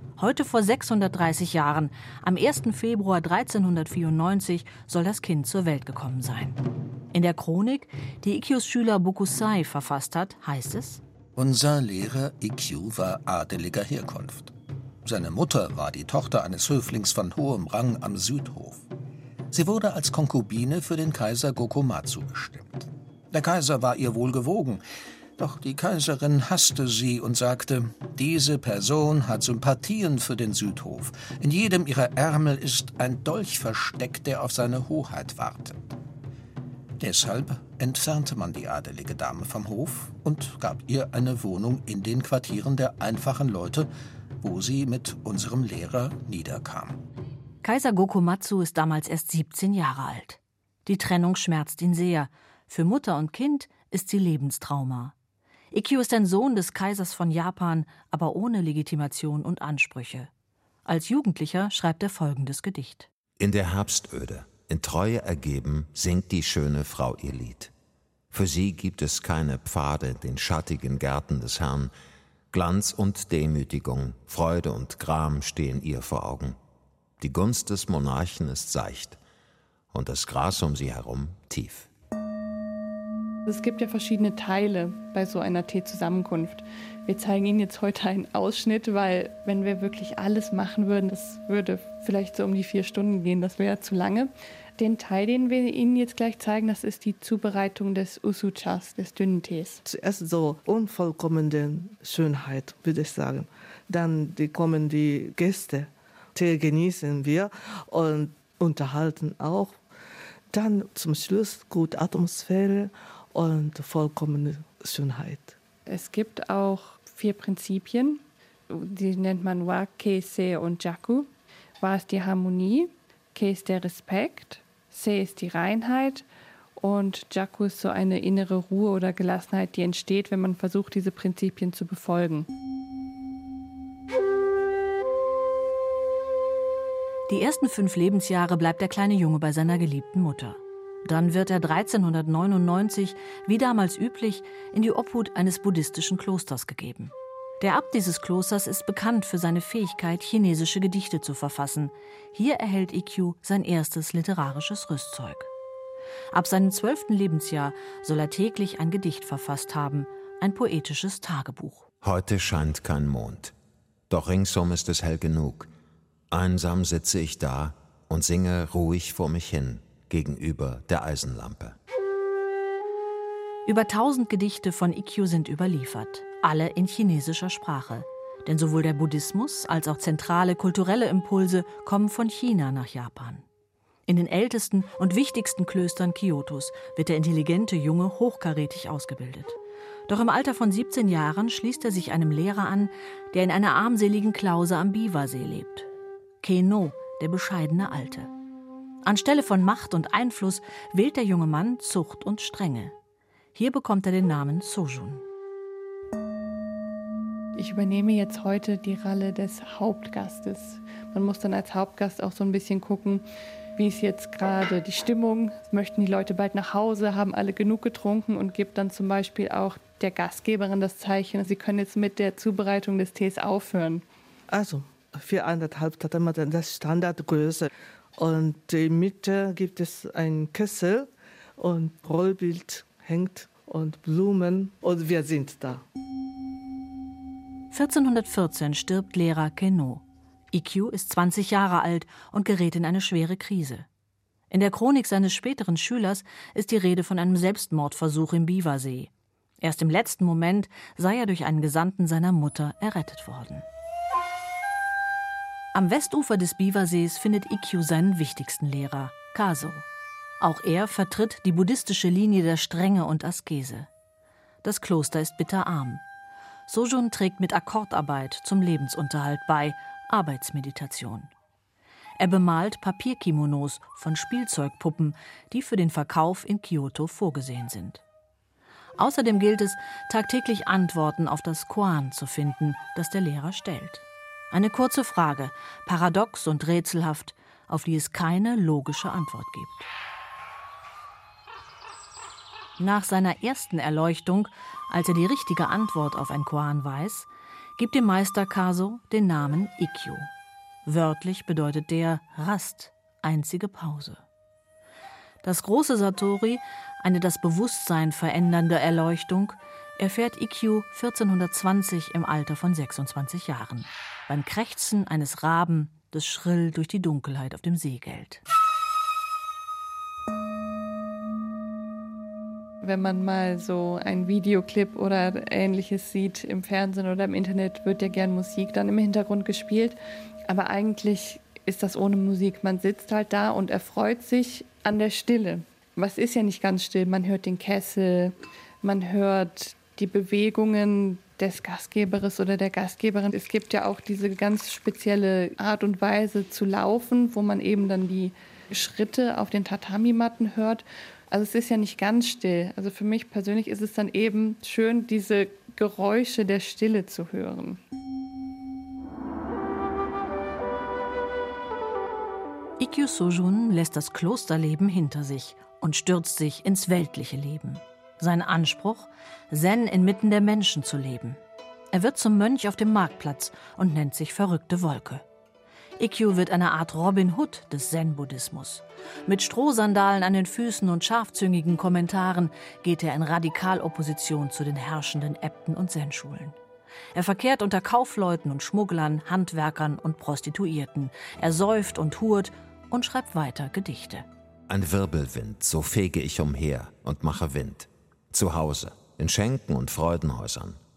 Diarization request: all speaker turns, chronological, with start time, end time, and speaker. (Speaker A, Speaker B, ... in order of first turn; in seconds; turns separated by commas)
Speaker A: 0.2-6.6, Speaker A: 7.1-11.0, Speaker B: 11.4-14.5, Speaker B: 15.1-18.9, Speaker B: 19.5-24.8, Speaker B: 25.4-35.8, Speaker B: 37.0-43.9, Speaker B: 44.4-47.0, Speaker A: 47.6-55.1, Speaker A: 55.7-60.3, Speaker A: 60.9-63.1, Speaker C: 63.4-67.7, Speaker C: 68.3-71.9, Speaker C: 72.5-76.6, Speaker C: 77.2-79.2, Speaker C: 79.9-81.9, Speaker D: 83.5-99.8, Speaker E: 99.9-109.8, Speaker E: 110.5-115.5, Speaker D: 115.9-121.3, Speaker D: 121.8-126.3, Speaker D: 126.8-132.5, Speaker A: 137.3-155.5, Speaker A: 156.3-161.9, Speaker C: 162.0-163.6, Speaker C: 164.1-165.7, Speaker C: 166.3-171.8, Speaker A: 173.7-183.4, Speaker A: 184.1-189.6, Speaker A: 190.1-195.9, Speaker A: 196.4-198.3, Speaker A: 199.0-202.9, Speaker A: 203.6-205.2, Speaker D: 207.6-224.1, Speaker E: 224.5-235.8, Speaker A: 237.7-243.9, Speaker A: 244.5-253.7, Speaker A: 255.7-259.9, Speaker A: 260.4-263.9, Speaker A: 264.6-266.0, Speaker A: 266.7-271.3, Speaker A: 272.2-278.0, Speaker A: 279.0-289.9, Speaker A: 292.8-300.3, Speaker A: 300.9-304.2, Speaker A: 305.4-318.4, Speaker D: 322.8-357.8, Speaker A: 362.8-371.4, Speaker A: 371.9-375.2, Speaker A: 376.0-386.6, Speaker A: 387.1-394.3, Speaker C: 394.7-400.8